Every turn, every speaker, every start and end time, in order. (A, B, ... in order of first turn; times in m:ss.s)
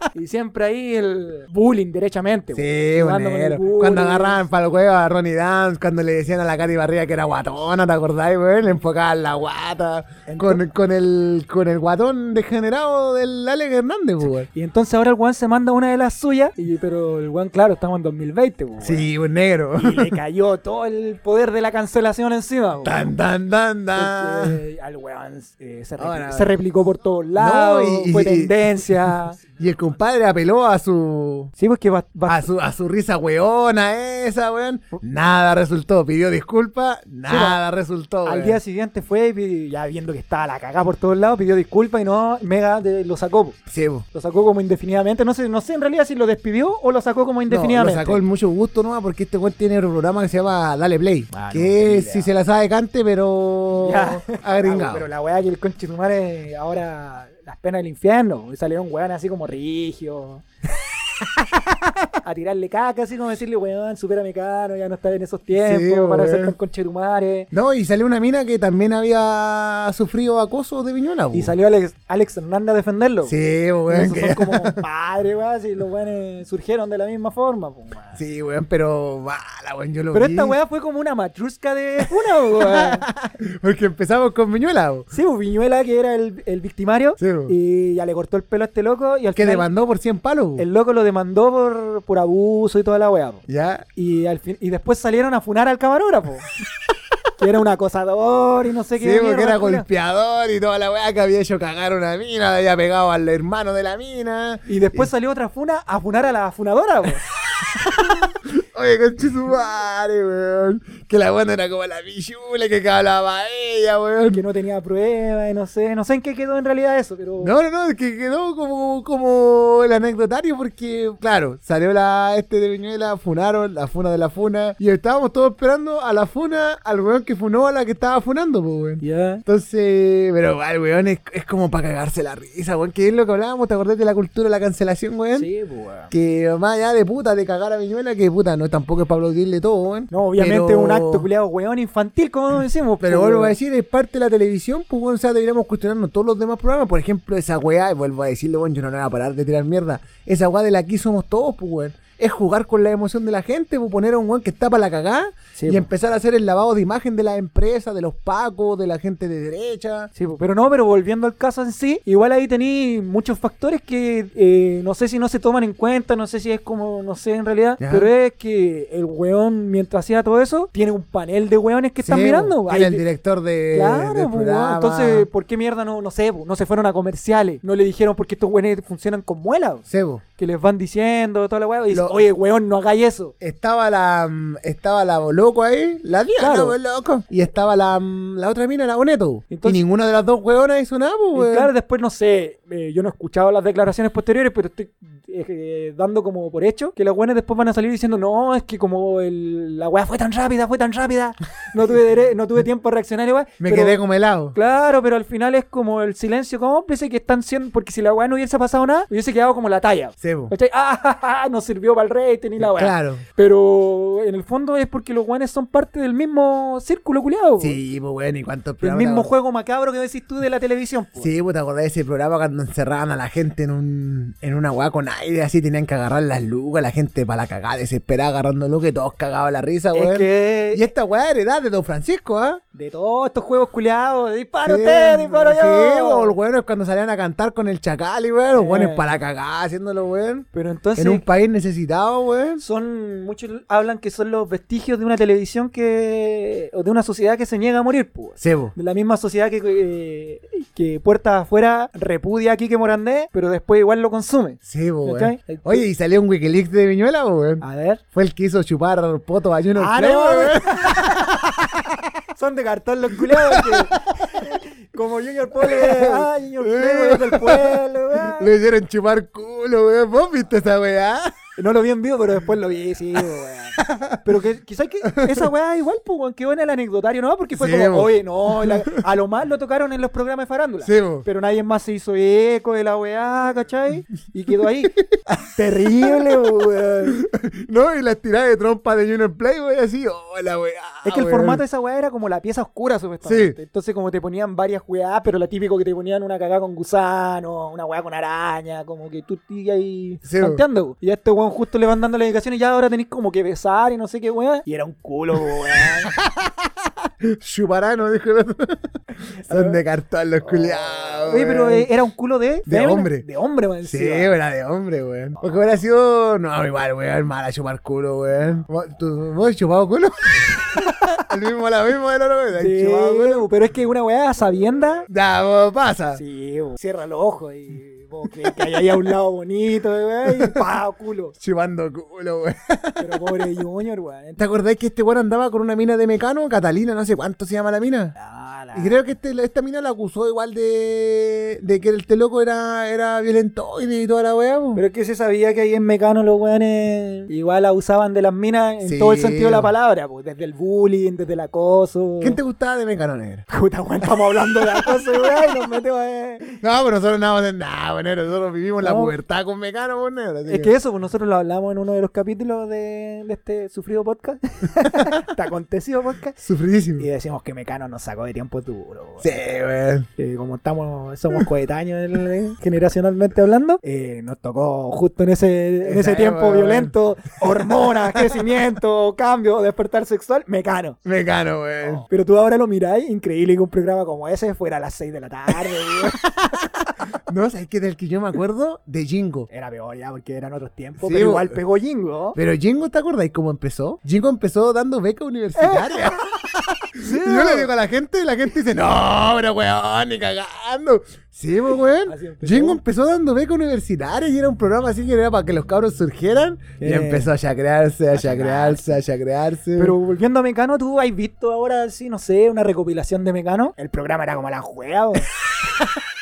0:00.1-0:04.4 A
0:02.5-0:14.5 B
0:10.3-0:10.6 A
0:14.5-0:19.1 A
0:18.8-0:20.2 B
0:19.8-0:23.1 A
0:22.8-0:24.6 B
0:24.0-0:29.4 A
0:26.0-0:26.5 B
0:27.4-0:31.5 B
0:31.6-0:32.5 A
0:32.3-0:38.6 B
0:37.3-0:37.6 A
0:38.2-0:43.6 A
0:43.7-0:44.0 B
0:44.1-0:48.2 A
0:47.5-0:55.1 B
0:51.3-0:52.3 A
0:53.8-1:00.4 A
1:02.2-1:07.5 A
1:05.6-1:06.6 B
1:07.5-1:11.5 B
1:11.3-1:13.4 A
1:13.3-1:14.8 B
1:13.9-1:18.2 A
1:18.2-1:20.6 B
1:20.1-1:23.1 A
1:22.0-1:25.1 B
1:25.1-1:29.7 A
1:27.2-1:27.5 B
1:29.4-1:30.7 B
1:30.6-1:33.4 A
1:33.5-1:33.9 B
1:34.0-1:36.5 A
1:37.4-1:39.9 A
1:39.0-1:45.1 B
1:44.7-1:47.2 A
1:47.3-1:54.4 B
1:54.3-1:57.5 A
1:57.4-2:15.5 B
2:09.0-2:09.4 A
2:15.4-2:16.1 A
2:16.1-2:21.3 B
2:20.1-2:23.6 A
2:23.0-2:40.1 B
2:35.6-2:35.9 A
2:40.2-2:53.0 A
2:47.8-2:48.1 B
2:52.0-2:55.3 B
2:53.7-2:59.8 A
2:59.9-3:00.2 B
3:00.4-3:03.3 A
3:01.9-3:02.2 B
3:03.4-3:11.7 B
3:06.4-3:06.8 A
3:09.5-3:09.8 A
3:11.3-3:24.0 A
3:23.6-3:24.6 B
3:24.5-3:37.8 A
3:30.2-3:30.5 B
3:32.6-3:33.2 B
3:37.6-3:39.3 B
3:38.8-3:41.3 A
3:41.2-3:52.6 B
3:49.9-3:50.9 A
3:52.7-3:56.4 A
3:54.6-4:02.6 B
3:58.5-3:59.1 A
4:00.5-4:01.2 A
4:02.6-4:15.9 A
4:08.4-4:08.7 B
4:14.7-4:22.1 B
4:17.6-4:18.0 A
4:19.8-4:21.3 A
4:22.4-4:28.5 A
4:23.2-4:24.6 B
4:25.6-4:31.4 B
4:31.6-4:45.0 A
4:33.8-4:34.2 B
4:35.1-4:35.5 B
4:37.5-4:39.0 B
4:40.8-4:41.3 B
4:45.1-4:51.6 B
4:45.6-4:47.2 A
4:51.0-5:06.1 A
4:53.2-4:53.6 B
5:00.2-5:00.6 B
5:05.5-5:06.6 B
5:07.2-5:08.8 B
5:09.4-5:09.8 A
5:09.4-5:11.9 B
5:10.4-5:14.3 A
5:12.7-5:13.2 B
5:13.8-5:23.5 B
5:22.6-5:25.1 A
5:25.1-5:26.2 B
5:26.1-5:31.4 A
5:30.2-5:30.6 B
5:31.4-5:33.4 B
5:33.0-5:34.4 A
5:34.4-5:38.1 B
5:38.2-5:39.0 A
5:38.8-5:44.8 B
5:44.8-5:52.4 A
5:48.8-5:49.7 B
5:52.2-5:53.5 B
5:53.5-5:56.6 A
5:54.6-5:55.5 B
5:56.6-6:00.7 B
5:58.8-5:59.2 A
6:00.5-6:06.4 A
6:06.4-6:07.1 B
6:07.0-6:09.4 A
6:09.2-6:10.1 B
6:10.2-6:21.0 A
6:15.8-6:16.9 B
6:17.5-6:18.4 B
6:21.0-6:22.0 B
6:21.8-6:26.2 A
6:25.7-6:26.6 B
6:27.3-6:29.5 B
6:29.5-6:32.4 A
6:31.0-6:31.6 B
6:32.4-6:50.0 B
6:35.6-6:36.3 A
6:37.0-6:37.7 A
6:42.1-6:42.8 A
6:46.8-6:47.3 A
6:48.1-6:49.0 A
6:49.8-6:55.3 A